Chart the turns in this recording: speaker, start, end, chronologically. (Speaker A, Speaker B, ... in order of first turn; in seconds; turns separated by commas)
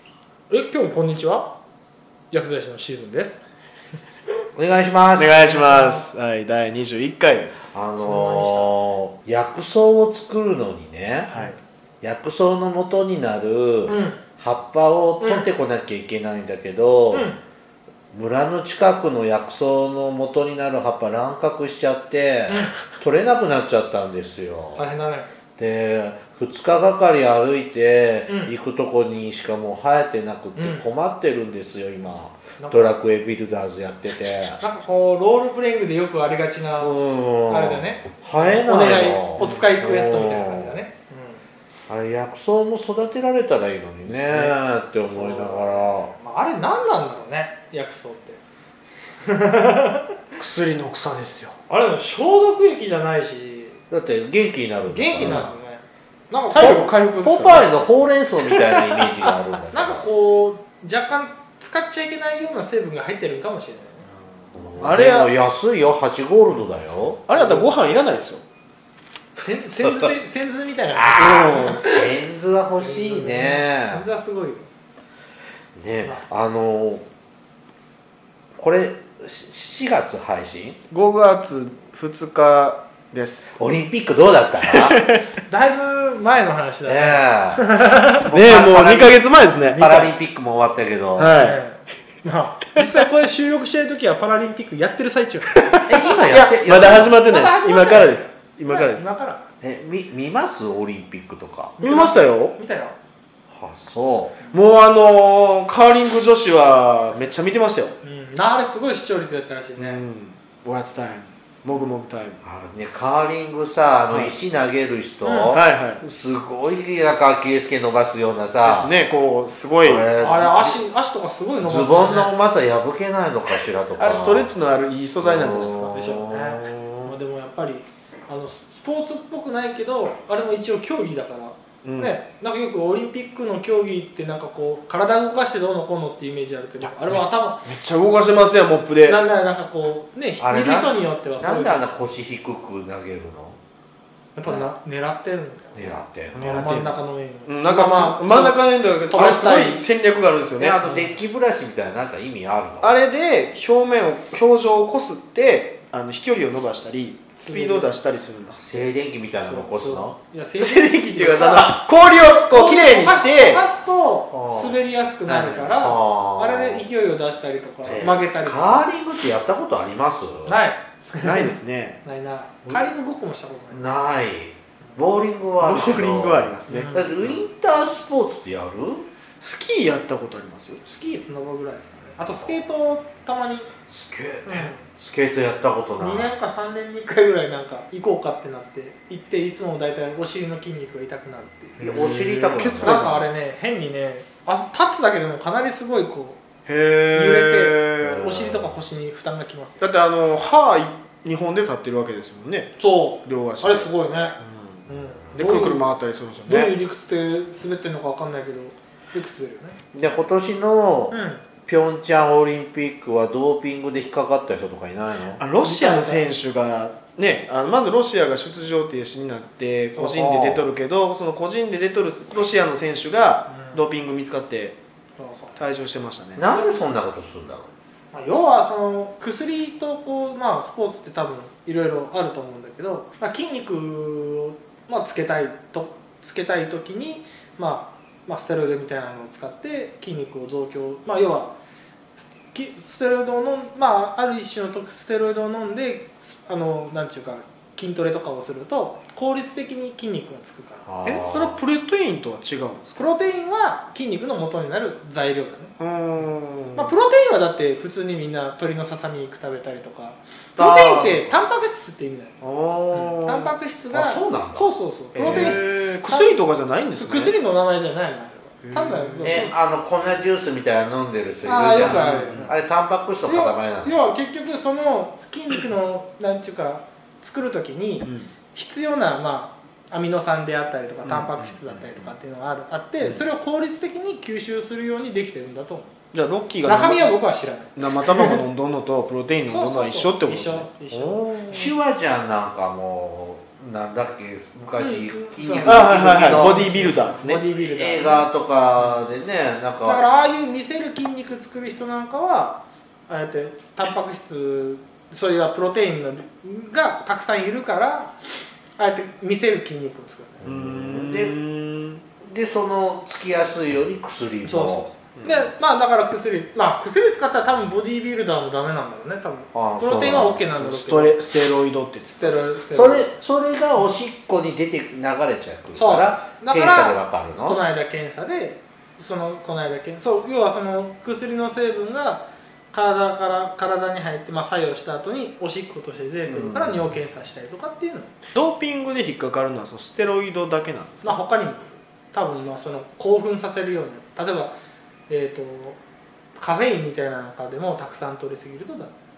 Speaker A: 0.5-1.5, Speaker A: 2.3-3.4, Speaker B: 4.5-5.4, Speaker C: 5.2-7.8, Speaker A: 5.3-6.1, Speaker B: 7.7-11.3, Speaker A: 8.0-8.7, Speaker A: 11.3-11.6, Speaker B: 12.0-17.3, Speaker A: 13.9-14.2, Speaker A: 15.2-15.5, Speaker A: 17.1-17.4, Speaker B: 18.1-24.9, Speaker A: 22.5-22.7, Speaker A: 24.8-25.3, Speaker B: 25.6-34.6, Speaker A: 28.3-28.6, Speaker A: 30.6-30.9, Speaker A: 32.6-33.0, Speaker A: 34.6-41.4, Speaker B: 36.8-40.8, Speaker C: 39.4-39.7, Speaker B: 41.9-46.1, Speaker C: 44.1-44.5, Speaker A: 45.0-48.4, Speaker A: 49.2-50.1, Speaker C: 50.4-51.6, Speaker A: 51.7-53.8, Speaker B: 53.9-55.5, Speaker A: 54.9-56.9, Speaker C: 55.2-55.5, Speaker C: 56.5-57.9, Speaker B: 56.5-60.1, Speaker C: 58.5-58.8, Speaker A: 59.7-64.1, Speaker B: 64.5-67.4, Speaker C: 64.8-65.3, Speaker C: 67.3-68.4, Speaker A: 67.3-67.7, Speaker A: 69.4-72.1, Speaker B: 69.8-70.1, Speaker B: 70.9-74.0, Speaker C: 71.1-71.9, Speaker A: 72.7-74.7, Speaker B: 75.8-77.0, Speaker B: 78.6-80.8, Speaker C: 80.9-83.6, Speaker B: 83.6-85.0, Speaker C: 84.7-85.2, Speaker A: 85.5-88.3, Speaker B: 86.8-91.4, Speaker C: 88.2-90.1, Speaker C: 91.2-91.6, Speaker A: 91.2-96.2, Speaker B: 95.9-97.2, Speaker C: 96.3-99.1, Speaker A: 97.1-99.5, Speaker B: 99.6-101.8, Speaker A: 101.8-103.0, Speaker C: 101.8-102.5, Speaker B: 103.5-104.4, Speaker C: 104.5-108.0, Speaker A: 108.0-110.0, Speaker C: 109.8-112.4, Speaker B: 112.4-118.9, Speaker C: 114.1-114.3, Speaker A: 115.2-115.6, Speaker C: 115.5-116.0, Speaker C: 118.6-120.2, Speaker B: 119.8-120.8, Speaker A: 120.2-122.3, Speaker B: 121.6-124.5, Speaker C: 124.0-126.0, Speaker B: 125.2-127.2, Speaker A: 125.9-137.7, Speaker C: 131.8-132.2, Speaker C: 136.8-139.2, Speaker A: 139.1-141.9, Speaker B: 140.4-143.6, Speaker A: 144.3-149.8, Speaker B: 145.8-146.8, Speaker C: 146.3-150.9, Speaker B: 150.6-153.0, Speaker A: 150.8-151.2, Speaker C: 152.8-158.7, Speaker A: 157.4-158.0, Speaker B: 158.5-160.2, Speaker A: 159.4-161.8, Speaker C: 160.6-163.7, Speaker A: 162.5-168.9, Speaker B: 164.3-164.8, Speaker C: 165.3-165.8, Speaker B: 165.7-166.8, Speaker C: 167.8-168.2, Speaker B: 167.8-170.6, Speaker A: 170.5-173.9, Speaker C: 171.2-172.0, Speaker B: 173.7-179.1, Speaker C: 175.6-177.4, Speaker A: 176.7-177.1, Speaker C: 179.4-180.8, Speaker A: 180.8-183.7, Speaker B: 182.2-182.6, Speaker B: 183.9-186.3, Speaker A: 184.5-184.8, Speaker A: 186.0-192.1, Speaker C: 191.8-193.3, Speaker B: 191.8-193.1, Speaker A: 192.8-196.4, Speaker C: 196.7-198.3, Speaker A: 197.1-199.8, Speaker B: 198.0-198.7, Speaker C: 199.8-202.7, Speaker A: 202.8-205.8, Speaker C: 203.2-206.7, Speaker A: 206.5-209.8, Speaker B: 209.9-215.4, Speaker A: 211.1-211.4, Speaker C: 215.4-224.8, Speaker A: 215.6-216.3, Speaker B: 219.9-220.7, Speaker A: 223.5-223.9, Speaker A: 225.2-225.6, Speaker C: 225.6-226.4, Speaker B: 226.3-227.7, Speaker A: 226.5-226.8, Speaker A: 228.1-241.5, Speaker A: 242.5-251.3, Speaker B: 250.8-251.6, Speaker C: 251.2-253.1, Speaker A: 253.0-255.7, Speaker C: 255.8-257.0, Speaker A: 256.8-262.4, Speaker C: 260.6-261.3, Speaker C: 262.4-263.5, Speaker A: 262.9-266.4, Speaker B: 263.9-264.7, Speaker C: 265.1-267.3, Speaker B: 265.2-265.5, Speaker A: 266.9-269.5, Speaker C: 268.6-269.5, Speaker B: 269.2-273.9, Speaker A: 271.4-272.5, Speaker C: 271.7-272.5, Speaker A: 273.2-285.9, Speaker C: 278.0-278.3, Speaker C: 281.0-282.1, Speaker C: 286.1-287.1, Speaker A: 286.6-288.4, Speaker C: 287.8-291.7, Speaker A: 289.4-291.5, Speaker B: 291.5-296.7, Speaker A: 294.8-299.1, Speaker C: 295.6-297.4, Speaker B: 297.5-300.0, Speaker A: 299.8-308.1, Speaker A: 308.8-310.5, Speaker B: 310.4-311.4, Speaker C: 310.4-312.0, Speaker B: 312.2-314.9, Speaker A: 314.4-321.2, Speaker C: 315.1-315.5, Speaker B: 319.5-320.5, Speaker C: 320.5-322.4, Speaker A: 322.1-323.1, Speaker B: 322.7-327.6, Speaker A: 325.8-338.1, Speaker B: 336.2-336.9, Speaker C: 338.3-341.2, Speaker A: 341.0-344.5, Speaker A: 345.1-345.8, Speaker A: 346.4-348.9